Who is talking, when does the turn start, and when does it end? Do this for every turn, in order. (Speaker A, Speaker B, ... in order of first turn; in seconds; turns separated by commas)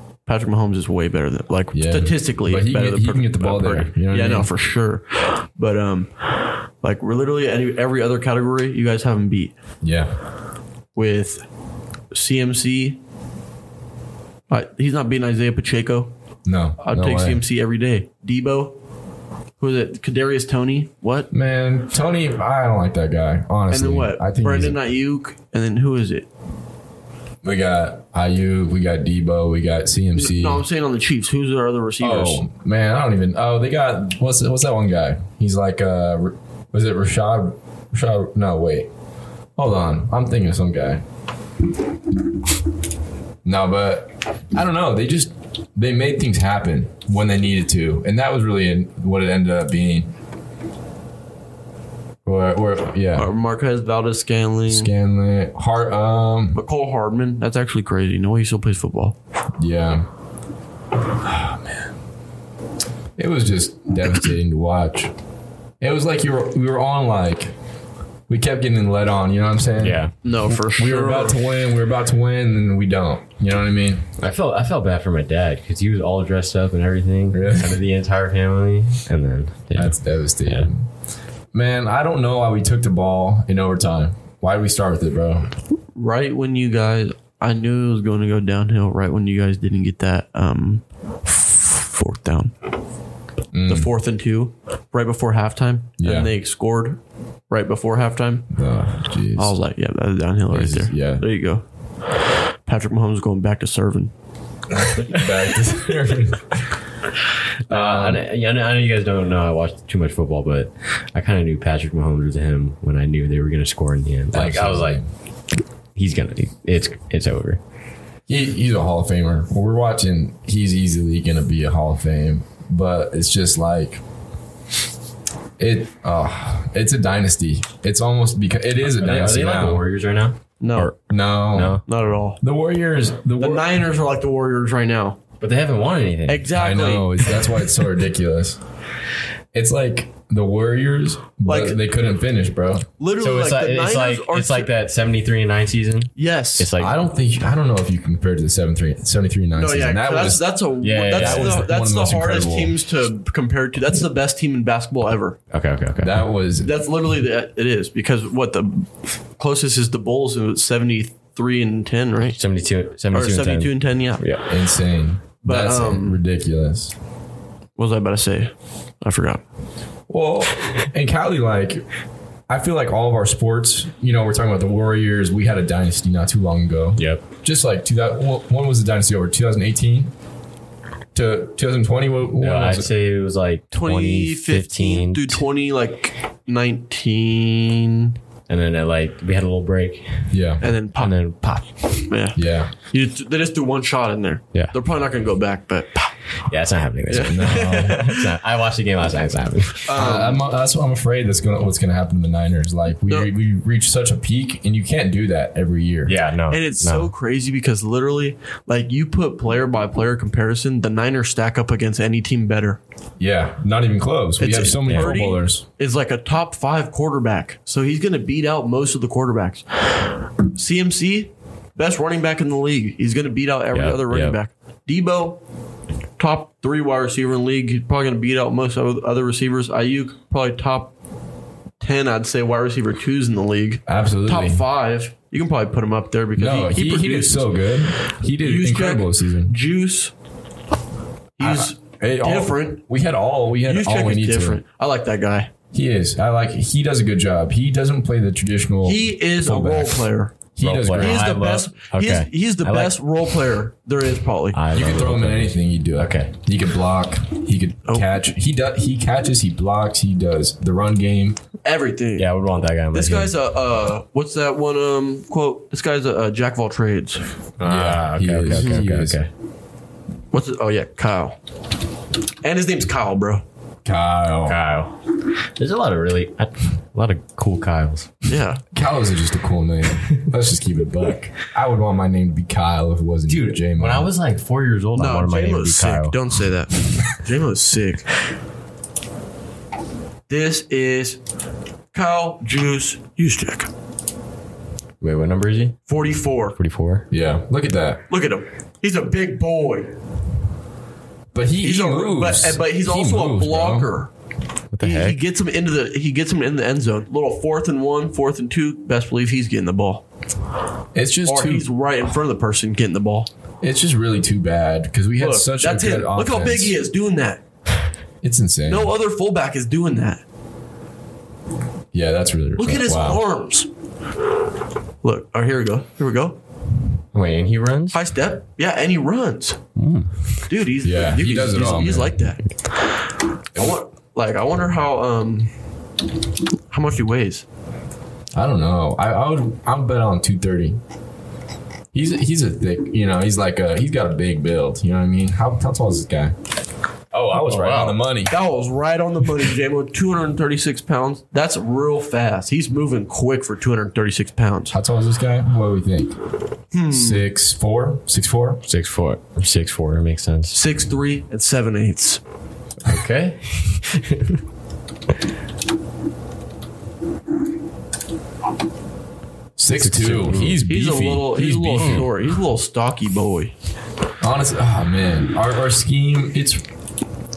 Speaker A: 0.3-9.5, Speaker B: 1.7-4.5, Speaker B: 9.8-10.2, Speaker A: 10.9-11.4, Speaker A: 12.1-13.0, Speaker A: 14.5-16.1, Speaker B: 16.5-17.4, Speaker A: 16.8-18.8, Speaker A: 19.6-21.3, Speaker B: 21.3-24.8, Speaker A: 23.7-26.3, Speaker B: 27.4-30.6, Speaker A: 30.1-32.5, Speaker B: 32.0-38.9, Speaker B: 39.6-41.0, Speaker B: 43.5-50.1, Speaker B: 52.2-53.3, Speaker A: 53.2-54.9, Speaker B: 54.7-56.6, Speaker A: 56.5-59.2, Speaker B: 59.6-60.1, Speaker B: 61.2-61.9, Speaker B: 63.2-65.1, Speaker B: 65.8-67.5, Speaker B: 68.3-74.0, Speaker C: 69.8-70.1, Speaker A: 70.2-71.4, Speaker C: 74.2-80.7, Speaker B: 77.3-77.8, Speaker B: 79.8-80.9, Speaker B: 81.5-85.5, Speaker A: 86.0-92.5, Speaker B: 93.5-93.9, Speaker A: 93.7-98.5, Speaker B: 96.0-96.3, Speaker B: 98.5-99.5, Speaker A: 99.4-104.1, Speaker B: 100.5-101.2, Speaker B: 104.7-106.7, Speaker C: 105.0-105.5, Speaker B: 107.7-108.2, Speaker C: 107.7-115.0, Speaker B: 114.3-115.0, Speaker C: 116.0-117.6, Speaker B: 118.3-124.0, Speaker B: 125.6-129.8, Speaker C: 128.9-131.0, Speaker A: 130.6-130.9, Speaker B: 131.1-131.8, Speaker C: 131.5-131.8, Speaker A: 131.9-132.4, Speaker B: 132.4-133.7, Speaker A: 133.4-135.2, Speaker C: 135.4-136.5, Speaker A: 136.3-137.5, Speaker B: 136.5-138.6, Speaker B: 139.5-142.9, Speaker A: 141.5-141.8, Speaker A: 143.0-144.7, Speaker C: 143.2-147.0, Speaker A: 146.2-146.7, Speaker B: 146.8-150.5, Speaker A: 149.6-155.4, Speaker C: 150.8-151.7, Speaker B: 151.1-152.8, Speaker C: 155.5-156.3, Speaker B: 156.0-156.7, Speaker A: 156.6-158.9, Speaker A: 159.4-162.4, Speaker C: 162.4-164.5, Speaker A: 163.1-164.2, Speaker B: 164.5-166.9, Speaker A: 165.4-166.2, Speaker A: 167.8-168.5, Speaker A: 169.0-169.4, Speaker B: 170.1-171.8, Speaker B: 172.5-180.1, Speaker C: 177.0-177.2, Speaker B: 181.1-182.9, Speaker C: 182.4-185.4, Speaker A: 183.7-188.1, Speaker C: 188.5-190.3, Speaker B: 190.3-190.7, Speaker A: 190.6-191.2, Speaker C: 190.9-191.8, Speaker A: 192.1-196.1, Speaker B: 192.3-192.7, Speaker C: 196.5-200.0, Speaker A: 197.1-198.3, Speaker B: 197.2-198.0, Speaker A: 199.9-200.4, Speaker B: 199.9-206.2, Speaker C: 206.1-207.1, Speaker A: 206.5-212.8, Speaker B: 213.2-215.6, Speaker A: 214.4-225.4, Speaker C: 214.9-215.2, Speaker C: 223.7-224.4, Speaker A: 226.2-230.9, Speaker A: 231.8-237.7, Speaker B: 233.9-234.6, Speaker B: 236.4-239.5, Speaker A: 238.4-240.1, Speaker A: 241.4-242.8, Speaker B: 241.4-244.6, Speaker A: 243.7-245.5, Speaker B: 245.7-251.3, Speaker A: 248.8-250.4, Speaker C: 250.6-252.9, Speaker A: 251.0-254.6, Speaker C: 254.5-256.3, Speaker B: 254.7-261.4, Speaker A: 261.6-262.3, Speaker C: 262.2-263.3, Speaker A: 262.9-267.2, Speaker C: 267.6-269.3, Speaker B: 267.6-269.2, Speaker A: 268.5-268.8, Speaker A: 270.3-271.4, Speaker A: 272.4-273.4, Speaker B: 273.9-274.6, Speaker C: 274.5-278.1, Speaker A: 278.3-278.6, Speaker B: 278.7-284.1, Speaker C: 283.3-286.2, Speaker A: 285.0-288.1, Speaker A: 290.3-291.2, Speaker A: 291.9-293.7, Speaker C: 295.0-295.8, Speaker A: 295.9-296.6, Speaker C: 296.6-297.1, Speaker B: 297.1-298.1, Speaker A: 298.1-299.9, Speaker B: 301.3-303.9, Speaker A: 301.6-304.1, Speaker C: 304.7-305.2, Speaker A: 304.8-310.0, Speaker B: 310.9-311.7, Speaker A: 311.3-313.3, Speaker B: 313.6-316.7, Speaker A: 315.2-317.4, Speaker B: 318.2-318.9, Speaker A: 318.7-320.2, Speaker B: 321.9-323.2, Speaker A: 322.6-323.7, Speaker A: 325.0-326.4, Speaker C: 327.1-328.0, Speaker A: 327.9-329.6, Speaker C: 329.8-330.4, Speaker A: 330.5-332.8, Speaker B: 330.8-332.2, Speaker A: 333.6-335.5, Speaker A: 336.7-337.4, Speaker B: 338.4-340.8, Speaker B: 341.9-346.3, Speaker B: 347.1-348.3, Speaker C: 347.3-348.0, Speaker A: 348.3-354.8, Speaker B: 354.7-356.1, Speaker A: 356.7-357.2, Speaker B: 356.9-358.6, Speaker C: 358.6-360.6, Speaker A: 360.5-362.2, Speaker C: 362.9-364.4, Speaker B: 369.6-372.1, Speaker C: 369.7-370.6, Speaker A: 370.7-373.5, Speaker C: 371.8-372.1, Speaker B: 374.2-376.6